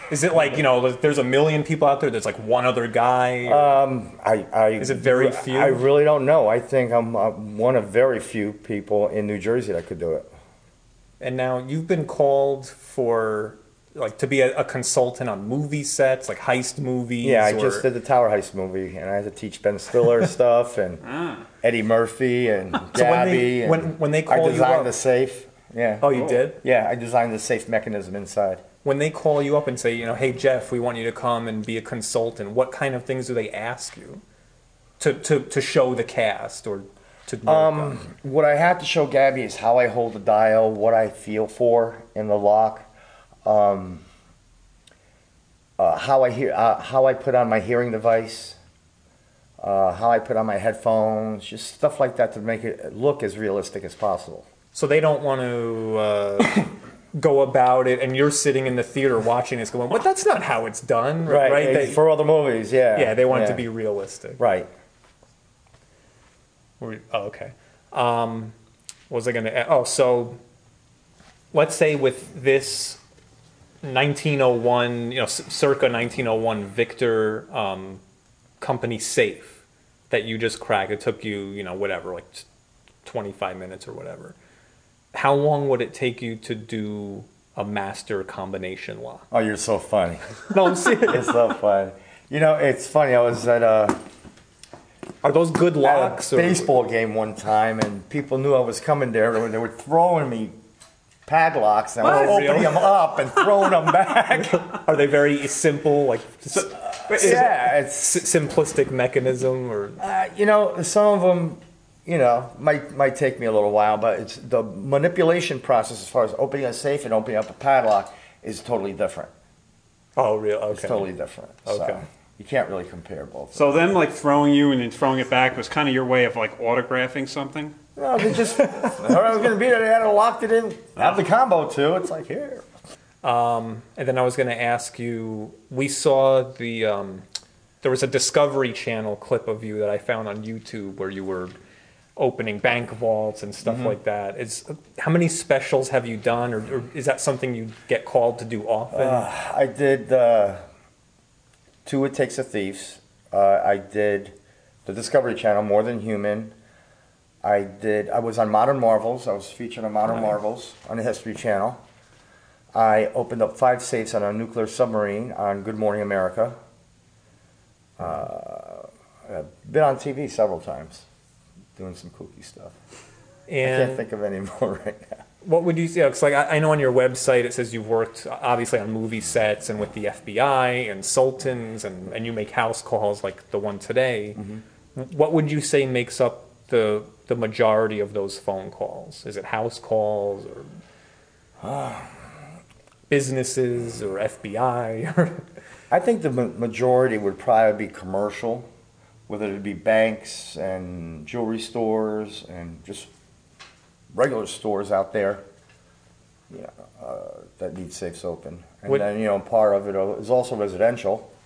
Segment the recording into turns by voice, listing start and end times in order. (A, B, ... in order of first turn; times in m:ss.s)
0:00.1-0:03.8 A
0:03.4-0:10.3 B
0:04.8-0:05.8 A
0:11.2-0:17.9 A
0:17.2-0:21.0 B
0:21.0-0:21.4 C
0:21.6-0:28.6 B
0:22.9-0:24.9 A
0:26.0-0:26.6 A
0:26.1-0:26.4 C
0:28.8-0:34.2 A
0:35.0-0:38.0 A
0:37.5-0:42.9 B
0:43.4-0:44.0 B
0:45.8-0:48.6 B
0:49.6-0:54.5 B
0:54.7-1:02.0 A
1:01.3-1:03.6 B
1:03.0-1:04.4 A
1:04.4-1:04.7 B
1:06.8-1:08.6 A
1:09.1-1:10.4 A
1:11.5-1:13.0 A
1:13.8-1:18.0 A
1:18.6-1:22.5 A
1:23.0-1:24.4 A
1:25.1-1:29.2 A
1:29.3-1:34.0 B
1:30.5-1:31.3 A
1:35.2-1:36.8 A
1:35.8-1:40.6 B
1:41.3-1:44.7 B
1:42.0-1:42.9 A
1:44.4-1:50.0 A
1:47.1-1:47.4 C
1:47.1-1:48.2 B
1:50.0-1:59.3 B
2:00.2-2:01.1 A
2:00.7-2:03.8 B
2:01.6-2:02.0 A
2:03.6-2:07.8 C
2:08.0-2:12.7 B
2:08.6-2:09.0 A
2:13.2-2:17.2 A
2:17.8-2:21.6 A
2:22.2-2:29.3 A
2:23.6-2:24.0 B
2:28.9-2:30.6 B
2:31.8-2:34.4 B
2:34.9-2:36.5 B
2:37.4-2:41.8 B
2:42.7-2:46.6 B
2:48.0-2:51.0 B
2:51.8-2:52.8 B
2:53.5-2:54.0 A
2:53.6-2:55.2 B
2:55.4-3:04.4 A
3:04.4-3:04.6 B
3:05.0-3:10.7 A
3:11.6-3:12.2 B
3:13.1-3:15.5 A
3:15.9-3:18.7 B
3:19.3-3:23.1 B
3:24.1-3:25.4 B
3:26.5-3:31.3 B